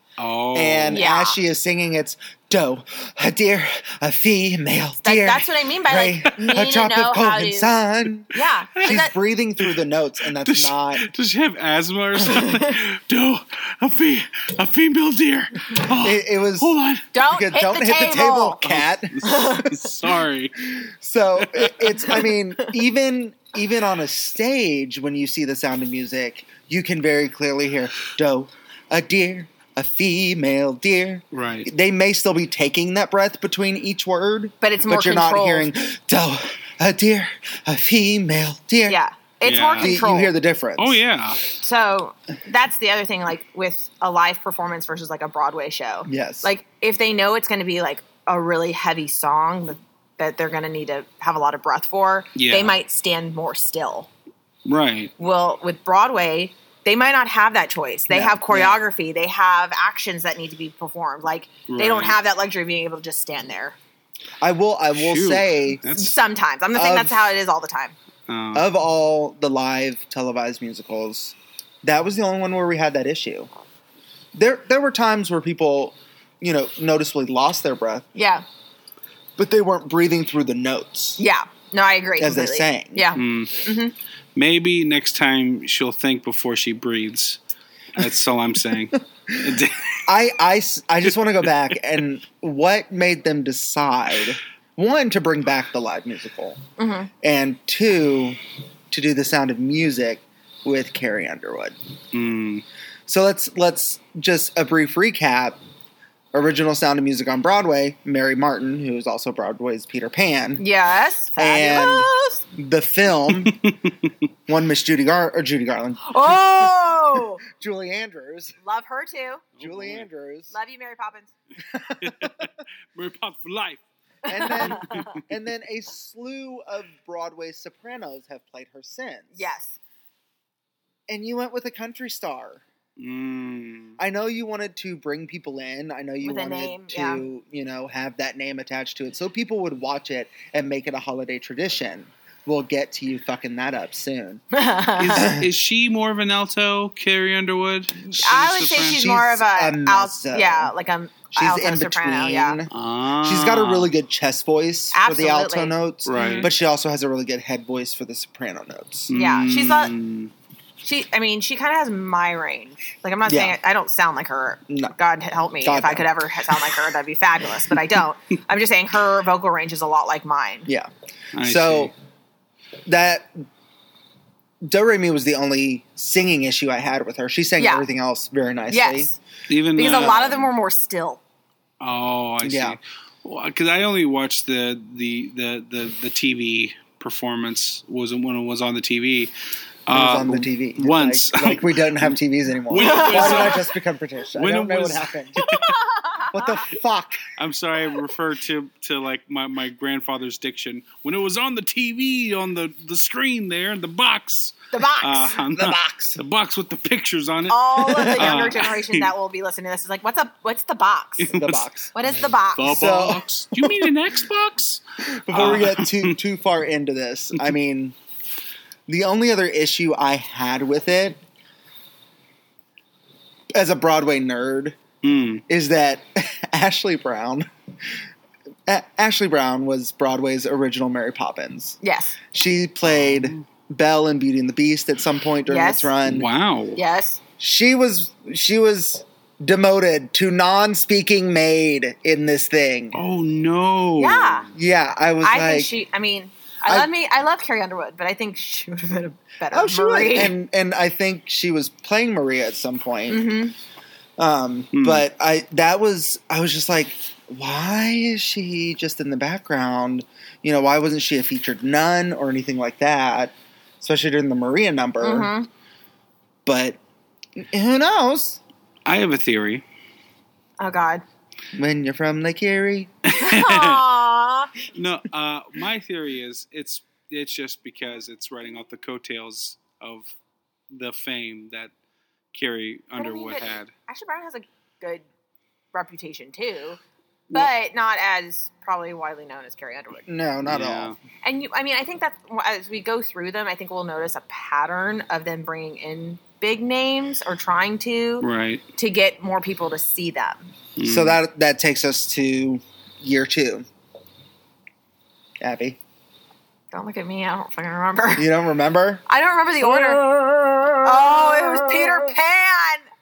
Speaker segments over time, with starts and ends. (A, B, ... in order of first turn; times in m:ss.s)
0:00.2-0:01.0 A
0:00.5-0:11.1 B
0:00.9-0:01.4 C
0:05.0-0:07.7 C
0:08.3-0:09.1 C
0:10.4-0:17.1 A
0:12.4-0:12.8 C
0:16.0-0:19.9 B
0:17.1-0:18.6 C
0:18.6-0:20.7 A
0:19.2-0:19.7 C
0:20.6-0:39.0 B
0:21.4-0:22.2 A
0:31.3-0:31.7 A
0:34.6-0:35.7 C
0:38.9-0:40.3 C
0:39.4-0:39.9 A
0:39.8-0:41.0 B
0:40.8-0:41.4 A
0:41.6-0:54.1 C
0:46.0-0:46.5 B
0:52.4-0:52.7 A
0:54.6-0:55.1 A
0:55.2-1:03.8 C
0:58.1-0:58.8 B
1:01.7-1:02.2 A
1:04.4-1:05.8 B
1:04.9-1:06.2 A
1:05.9-1:08.0 C
1:06.7-1:07.2 B
1:08.3-1:08.7 A
1:08.5-1:13.5 B
1:14.3-1:18.1 B
1:18.1-1:18.4 C
1:19.4-1:21.2 B
1:21.2-1:23.9 C
1:22.2-1:23.0 B
1:23.1-1:23.6 A
1:24.3-1:27.4 A
1:27.9-1:30.1 A
1:29.3-1:29.6 B
1:30.1-1:36.6 B
1:36.8-1:37.1 C
1:37.2-1:38.4 B
1:38.9-1:41.7 B
1:42.1-1:42.6 A
1:43.1-1:45.6 B
1:46.3-1:50.6 B
1:50.6-1:52.4 C
1:51.4-1:53.6 B
1:53.3-1:53.9 A
1:54.5-1:56.8 B
1:56.0-1:57.4 C
1:57.5-1:58.5 B
1:58.6-1:59.4 C
1:59.6-2:00.1 A
1:59.6-2:00.5 B
2:00.5-2:01.3 C
2:01.7-2:02.4 B
2:02.0-2:03.8 A
2:04.2-2:05.2 C
2:04.3-2:09.5 B
2:04.6-2:05.3 A
2:09.3-2:09.8 C
2:11.1-2:12.6 B
2:13.0-2:14.0 A
2:14.0-2:24.4 B
2:16.2-2:17.2 C
2:24.5-2:25.3 C
2:25.0-2:29.1 A
2:25.1-2:25.5 B
2:28.1-2:32.6 C
2:28.9-2:30.7 B
2:31.3-2:39.1 B
2:32.7-2:33.9 A
2:34.9-2:36.5 C
2:36.0-2:36.5 A
2:39.1-2:40.3 A
2:39.1-2:39.9 C
2:40.8-2:50.7 C
2:43.2-2:43.6 B
2:44.7-2:44.9 B
2:45.6-2:46.8 B
2:50.7-2:51.9 B
2:51.3-2:51.9 A
2:52.8-2:53.4 B
2:54.6-2:59.1 B
2:57.6-2:57.8 C
2:58.7-2:59.2 C
2:59.5-3:00.5 A
2:59.7-3:01.2 C
3:01.8-3:09.3 A
3:02.4-3:02.8 B
3:09.8-3:12.2 A
3:09.9-3:15.5 B
3:12.7-3:13.7 A
3:12.8-3:13.6 C
3:14.3-3:15.7 A
3:15.4-3:16.6 C
3:16.3-3:17.3 B
3:17.3-3:29.1 A
3:24.7-3:25.4 C
3:25.4-3:26.2 B
3:27.5-3:31.4 C
3:27.9-3:28.5 B
3:31.2-3:31.7 A
3:31.3-3:31.9 B
3:31.9-3:32.8 C
3:32.6-3:36.2 A
3:32.6-3:33.9 B
3:35.1-3:37.9 B
3:38.9-3:41.2 B
3:43.5-3:44.8 B
3:45.0-3:45.4 A
3:45.5-3:47.5 B
3:48.6-3:51.8 B
3:51.8-3:52.2 C
3:52.3-3:56.3 B
3:52.8-3:53.4 A
3:55.4-3:55.9 C
3:56.1-3:56.8 A
3:56.8-3:57.2 C
3:57.4-4:03.0 B
4:02.9-4:04.5 A
4:04.0-4:04.5 C
4:04.5-4:05.7 B
4:05.2-4:10.3 C
4:09.5-4:13.2 B
4:13.1-4:13.5 C
4:14.2-4:25.3 B
4:14.7-4:15.0 A
4:25.0-4:25.5 C
4:26.4-4:26.8 B
4:27.4-4:28.4 B
4:28.8-4:29.6 A
4:30.6-4:31.0 C
4:31.5-4:32.9 B
4:33.0-4:33.8 A
4:33.1-4:34.5 C
4:34.7-4:40.1 A
4:40.7-4:41.7 A
4:42.3-4:43.7 A
4:43.0-4:45.0 C
4:45.7-4:46.8 C
4:47.3-4:50.1 C
4:50.1-4:50.9 B
4:50.4-4:51.0 A
4:51.2-5:00.5 C
4:58.2-4:58.6 A
5:00.8-5:01.2 A
5:00.8-5:03.6 B
5:05.4-5:05.8 B
5:06.7-5:08.2 C
5:08.1-5:09.0 B
5:09.1-5:10.0 C
5:09.6-5:12.1 B
5:10.8-5:12.9 C